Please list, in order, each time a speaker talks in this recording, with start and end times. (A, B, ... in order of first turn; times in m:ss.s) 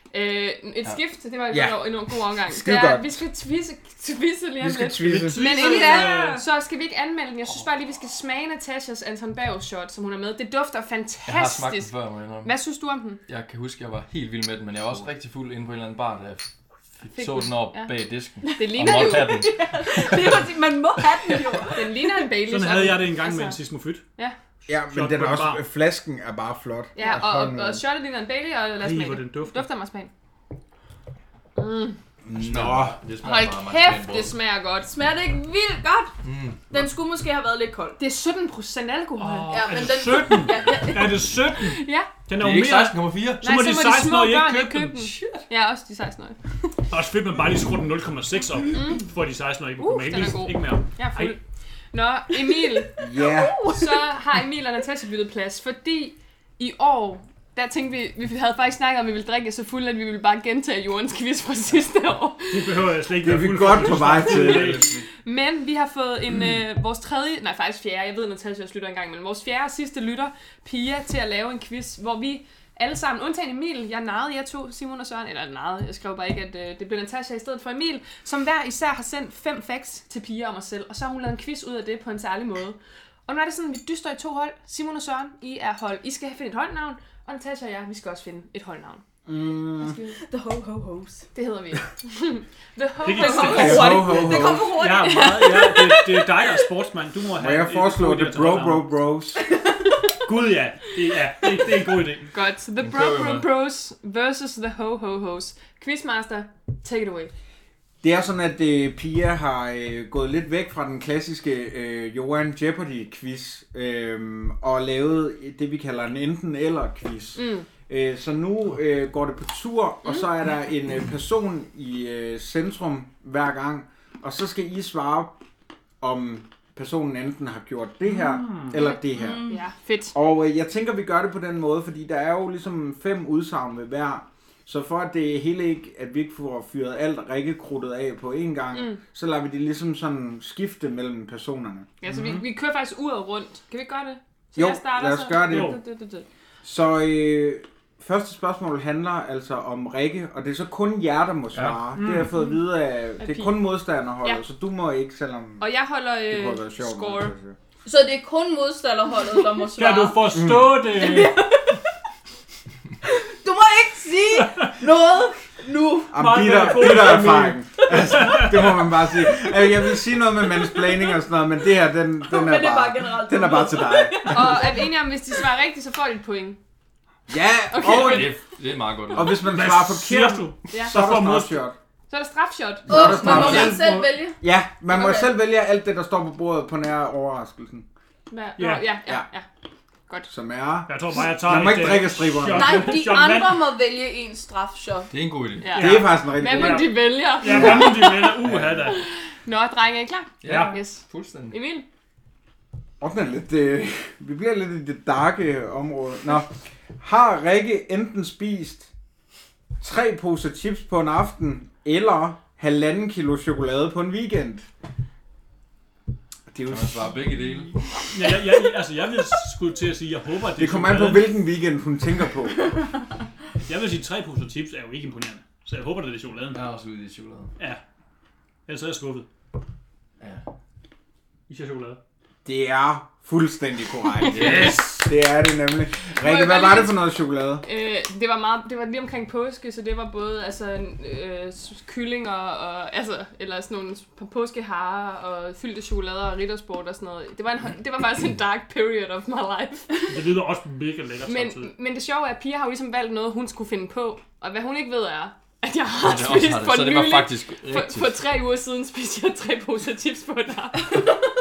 0:00.1-0:11.9 A
0:01.5-0:01.8 B
0:02.4-0:03.2 B
0:04.6-0:05.4 B
0:05.0-0:06.4 C
0:05.4-0:06.4 D
0:11.3-0:12.6 E
0:12.4-0:13.2 A
0:13.3-0:20.5 E
0:17.2-0:19.5 A
0:18.6-0:22.2 D
0:21.2-0:21.6 E
0:21.7-0:23.6 A
0:22.4-0:24.0 C
0:24.7-0:27.8 B
0:24.7-0:25.6 C
0:27.0-0:30.1 A
0:28.8-0:29.6 C
0:31.6-0:32.0 A
0:32.2-0:33.0 B
0:32.4-0:34.3 E
0:33.2-0:34.9 A
0:34.9-0:36.2 D
0:36.2-0:36.8 E
0:36.7-0:38.0 D
0:38.0-0:39.7 A
0:39.2-0:45.1 C
0:39.5-0:41.3 D
0:41.6-0:42.1 A
0:42.4-0:43.4 E
0:43.4-0:46.6 A
0:45.1-0:45.4 E
0:46.9-0:51.4 C
0:48.7-0:49.0 A
0:49.8-0:51.4 A
0:51.9-1:02.8 A
0:53.0-0:53.7 B
0:53.4-0:53.8 D
1:02.5-1:05.0 C
1:03.2-1:04.9 B
1:05.2-1:29.0 A
1:29.3-1:30.0 B
1:29.8-1:30.2 A
1:30.2-1:31.3 D
1:31.3-1:34.0 A
1:33.0-1:38.9 C
1:33.1-1:36.2 D
1:33.5-1:34.7 B
1:35.3-1:35.8 A
1:37.4-1:39.4 B
1:40.2-1:42.3 C
1:42.3-1:47.3 A
1:42.8-1:43.5 E
1:48.0-2:05.4 B
1:57.4-1:57.7 A
2:06.0-2:09.5 B
2:08.0-2:08.8 C
2:08.7-2:10.2 A
2:09.1-2:09.6 D
2:10.1-2:21.9 B
2:18.7-2:19.0 A
2:22.0-2:26.3 A
2:22.1-2:22.4 C
2:24.6-2:25.8 B
2:25.4-2:25.8 C
2:26.6-2:35.7 B
2:31.9-2:32.4 C
2:33.2-2:33.6 A
2:35.6-2:37.3 A
2:36.3-2:37.6 B
2:37.8-2:41.8 D
2:39.7-2:41.4 C
2:40.3-2:40.9 B
2:43.0-2:46.2 D
2:46.1-2:48.5 C
2:46.1-2:54.6 B
2:52.3-2:54.7 D
2:54.3-2:56.6 A
2:57.3-2:58.4 B
2:57.7-2:58.4 A
2:57.8-2:59.4 E
2:59.1-3:01.8 B
2:59.4-3:01.6 C
3:00.7-3:01.0 A
3:02.1-3:03.7 A
3:02.9-3:03.9 B
3:02.9-3:04.4 D
3:03.0-3:04.1 C
3:04.4-3:07.9 B
3:04.9-3:05.3 D
3:08.3-3:09.5 A
3:08.6-3:08.9 C
3:10.3-3:13.0 B
3:10.9-3:13.6 C
3:12.5-3:15.1 D
3:15.1-3:15.7 E
3:15.6-3:18.3 A
3:15.7-3:19.0 C
3:15.8-3:16.9 B
3:17.5-3:17.8 B
3:18.9-3:21.9 A
3:20.4-3:21.6 E
3:20.4-3:20.8 C
3:23.0-3:28.9 B
3:29.8-3:34.7 B
3:36.5-3:37.1 B
3:36.6-3:37.8 E
3:38.1-3:41.3 C
3:40.6-3:42.7 B
3:43.7-3:46.6 C
3:46.5-3:47.5 E
3:48.7-3:49.3 C
3:50.2-3:50.4 E
3:51.5-3:52.0 C
3:52.4-3:57.6 B
3:54.3-3:54.8 E
3:54.3-3:55.1 C
3:56.2-3:57.1 A
3:57.6-4:10.1 A
4:10.1-4:11.7 C
4:11.2-4:21.0 A
4:16.0-4:18.2 E